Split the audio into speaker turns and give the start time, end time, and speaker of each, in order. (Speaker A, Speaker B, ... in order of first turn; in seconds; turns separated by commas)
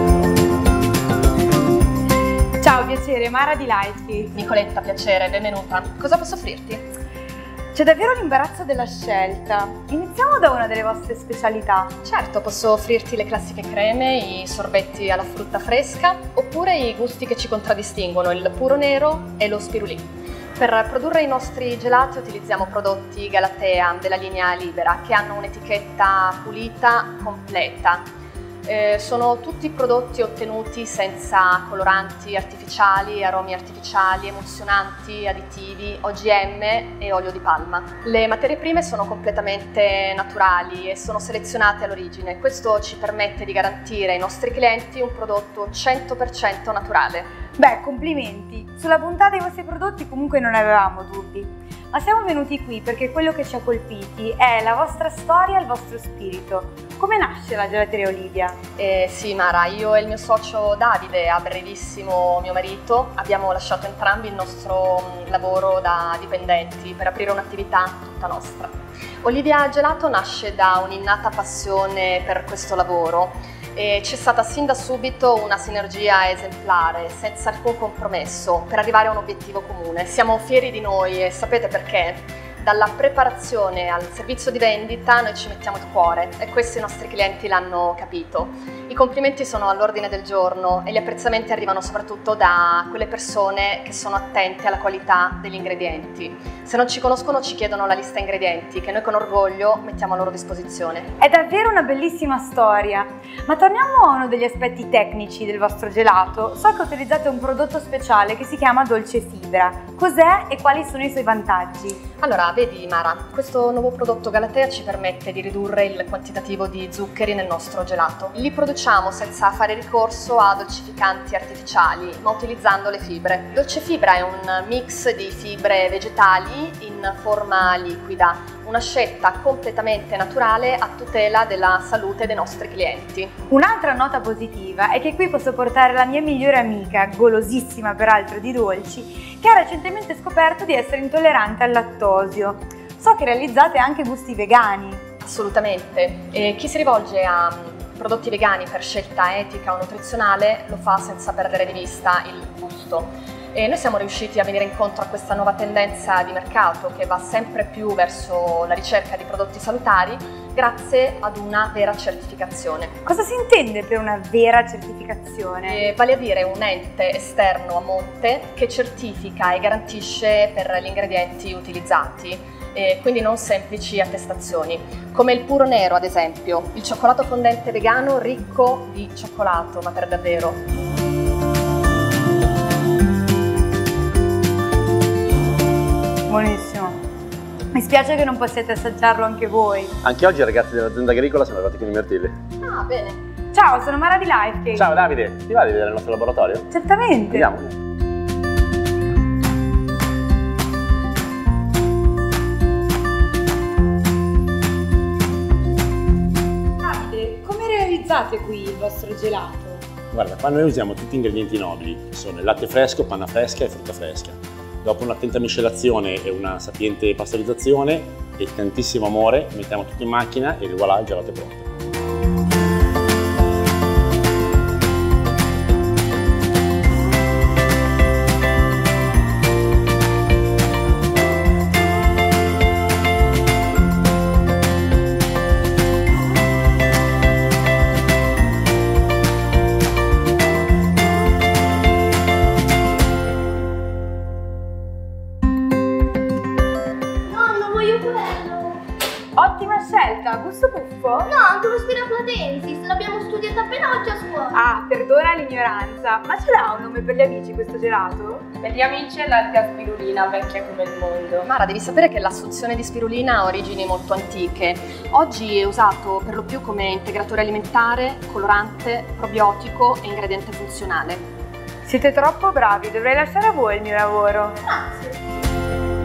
Speaker A: 2.6-4.4, Speaker B: 4.4-6.8, Speaker A: 7.7-11.9, Speaker B: 12.0-20.1, Speaker B: 20.6-28.1, Speaker B: 28.6-47.3, Speaker A: 47.6-58.6, Speaker B: 58.8-68.7, Speaker B: 69.2-101.1, Speaker A: 101.2-112.0, Speaker B: 112.2-133.3, Speaker A: 133.5-145.0, Speaker B: 145.2-162.9, Speaker A: 163.1-165.8, Speaker B: 165.7-180.6, Speaker A: 186.3-187.0, Speaker A: 187.7-189.9, Speaker C: 190.0-192.3, Speaker B: 192.6-193.2, Speaker A: 193.5-194.9, Speaker C: 194.8-196.7, Speaker A: 196.7-197.5, Speaker C: 197.3-197.7, Speaker A: 206.8-209.8, Speaker C: 210.1-221.7, Speaker D: 247.3-248.8, Speaker A: 249.4-251.3, Speaker D: 251.3-254.5, Speaker A: 254.5-258.5, Speaker E: 258.6-261.5, Speaker B: 261.5-271.2, Speaker A: 271.8-274.9